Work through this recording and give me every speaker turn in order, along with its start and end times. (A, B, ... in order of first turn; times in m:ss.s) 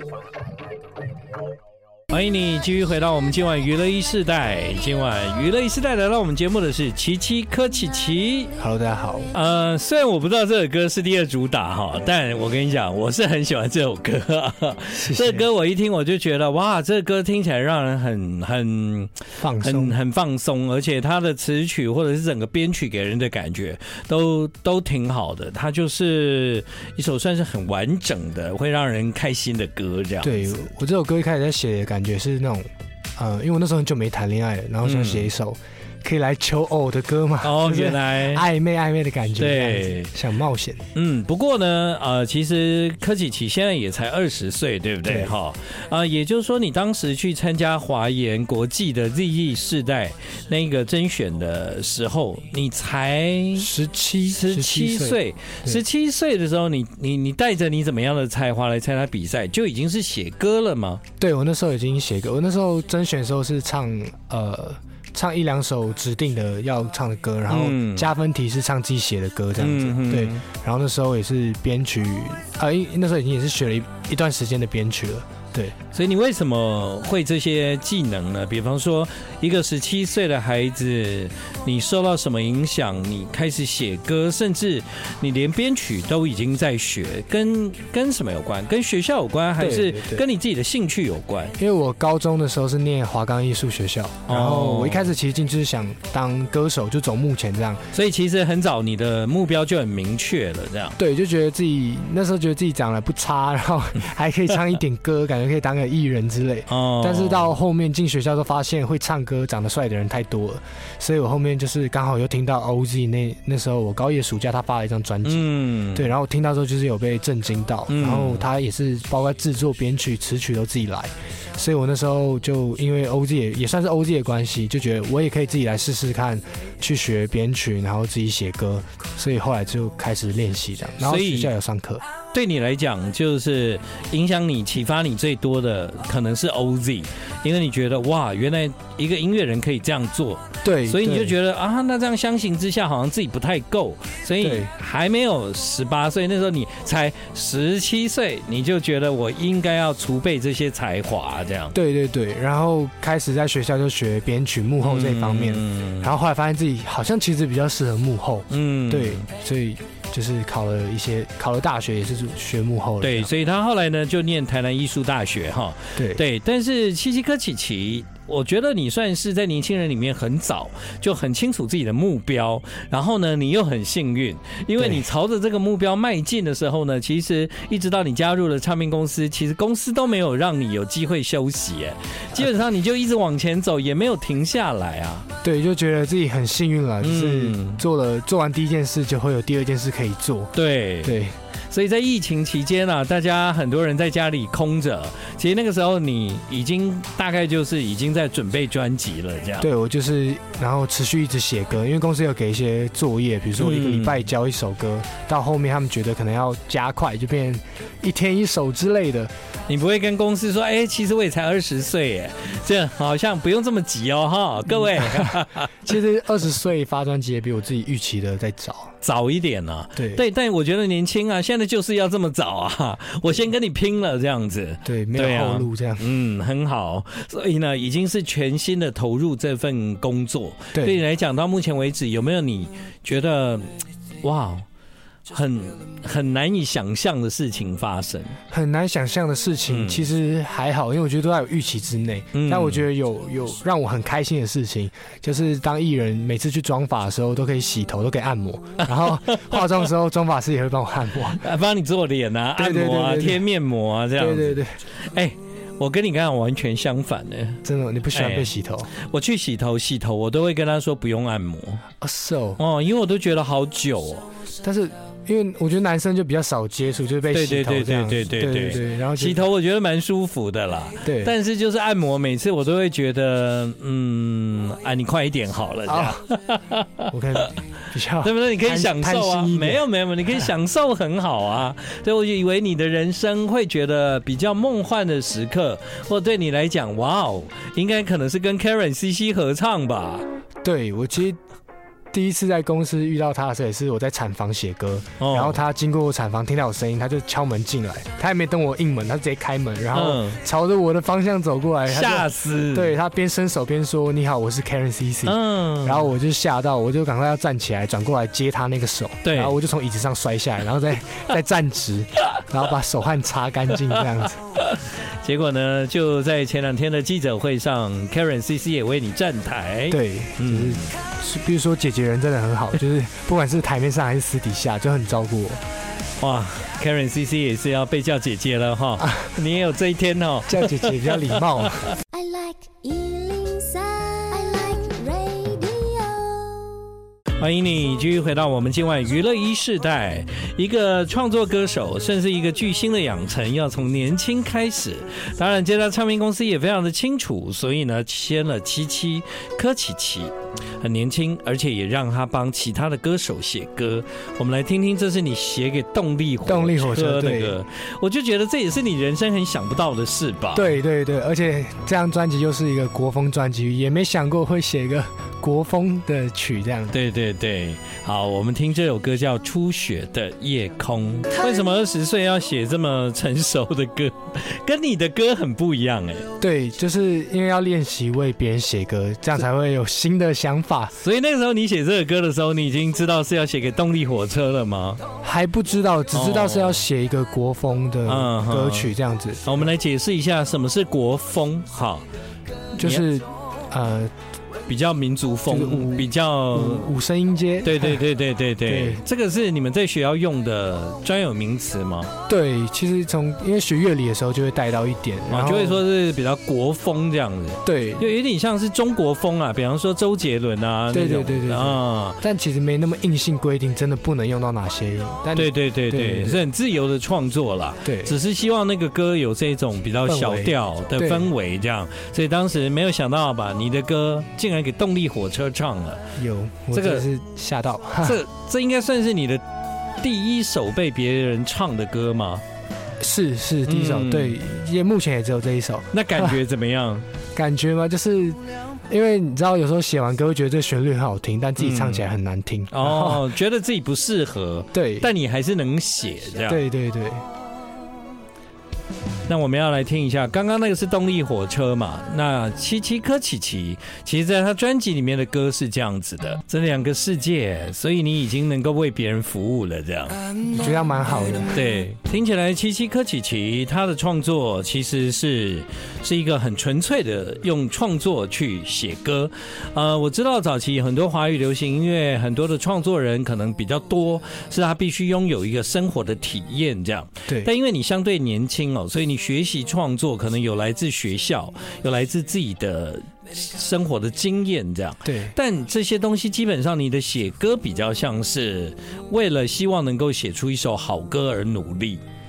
0:02.1-0:08.5 A
0:08.6-0:09.3 B
0:09.3-0:30.4 A
0:14.9-0:15.5 B
0:19.4-0:20.0 B
0:30.2-0:40.8 B
0:34.8-0:35.3 A
0:37.4-0:38.4 A
0:39.4-0:40.1 A
0:40.9-0:53.7 A
0:45.0-0:45.3 B
0:53.6-0:55.8 B
0:54.3-1:01.0 A
1:01.2-1:15.7 B
1:07.5-1:08.1 A
1:09.6-1:10.4 A
1:15.9-1:31.6 A
1:29.6-1:30.2 B
1:31.6-1:37.8 B
1:34.3-1:35.1 A
1:37.9-1:41.0 A
1:41.0-2:12.0 B
1:46.7-1:47.6 A
1:55.2-1:56.1 A
1:57.9-1:58.4 A
2:11.0-2:11.5 A
2:12.3-2:31.7 A
2:20.6-2:21.4 B
2:24.4-2:24.7 B
2:31.7-2:43.3 B
2:34.8-2:36.1 A
2:38.5-2:39.2 A
2:43.0-3:05.3 A
2:46.0-2:46.2 B
2:54.8-2:55.0 B
3:05.4-3:11.3 B
3:07.0-3:07.8 A
3:10.5-3:11.2 A
3:11.7-3:19.7 A
3:19.6-3:29.3 B
3:23.6-3:24.2 A
3:29.7-3:35.9 A
3:34.8-3:38.9 B
3:39.0-3:54.6 A
3:40.0-3:40.2 B
3:44.8-3:46.0 B
3:50.7-3:51.0 B
3:55.3-3:58.4 A
3:58.5-4:11.4 B
3:59.7-4:00.1 A
4:02.3-4:02.8 A
4:09.3-4:09.6 A
4:11.4-4:17.6 A
4:12.6-4:13.4 B
4:14.2-4:14.8 B
4:17.6-4:18.9 B
4:18.1-4:21.8 A
4:22.0-4:22.6 B
4:22.6-4:24.2 A
4:24.6-4:29.5 B
4:27.3-4:37.5 A
4:31.0-4:31.3 B
4:35.9-4:36.2 B
4:37.1-4:39.8 B
4:38.2-4:50.2 A
4:50.6-4:51.4 B
4:52.1-5:14.4 B
4:55.2-4:55.6 A
4:59.9-5:00.4 A
5:01.9-5:03.0 A
5:05.2-5:06.1 A
5:09.2-5:09.5 A
5:14.6-5:20.9 A
5:19.9-5:25.6 B
5:26.2-5:31.9 A
5:30.5-5:31.8 B
5:32.1-5:36.9 C
5:37.4-6:00.7 A
5:56.4-5:57.6 B
6:00.5-6:07.0 B
6:06.9-6:16.3 A
6:16.4-6:20.9 B
6:21.0-6:25.0 A
6:25.2-6:29.7 B
6:26.1-6:26.8 A
6:28.1-6:28.9 A
6:29.4-6:32.0 A
6:32.8-6:33.0 A
6:32.8-6:34.1 B
6:34.7-6:36.9 A
6:35.5-6:38.0 B
6:37.6-6:42.1 A
6:38.6-6:39.0 B
6:42.3-6:45.8 B
6:45.3-6:52.2 A
6:47.6-6:48.0 B
6:50.9-6:56.4 B
6:55.3-7:06.0 A
6:57.8-6:58.2 B
7:00.0-7:01.3 B
7:06.2-7:08.2 B
7:06.7-7:07.0 A
7:08.0-7:09.4 A
7:10.0-7:12.4 A
7:13.0-7:16.4 B
7:13.6-7:14.4 A
7:15.9-7:17.0 A
7:17.4-7:23.3 B
7:21.6-7:22.0 A
7:22.7-7:26.6 A
7:24.7-7:25.1 B
7:26.5-7:27.2 B
7:29.3-7:40.2 A
7:40.5-7:41.6 B
7:41.5-8:12.0 A
8:05.0-8:05.3 B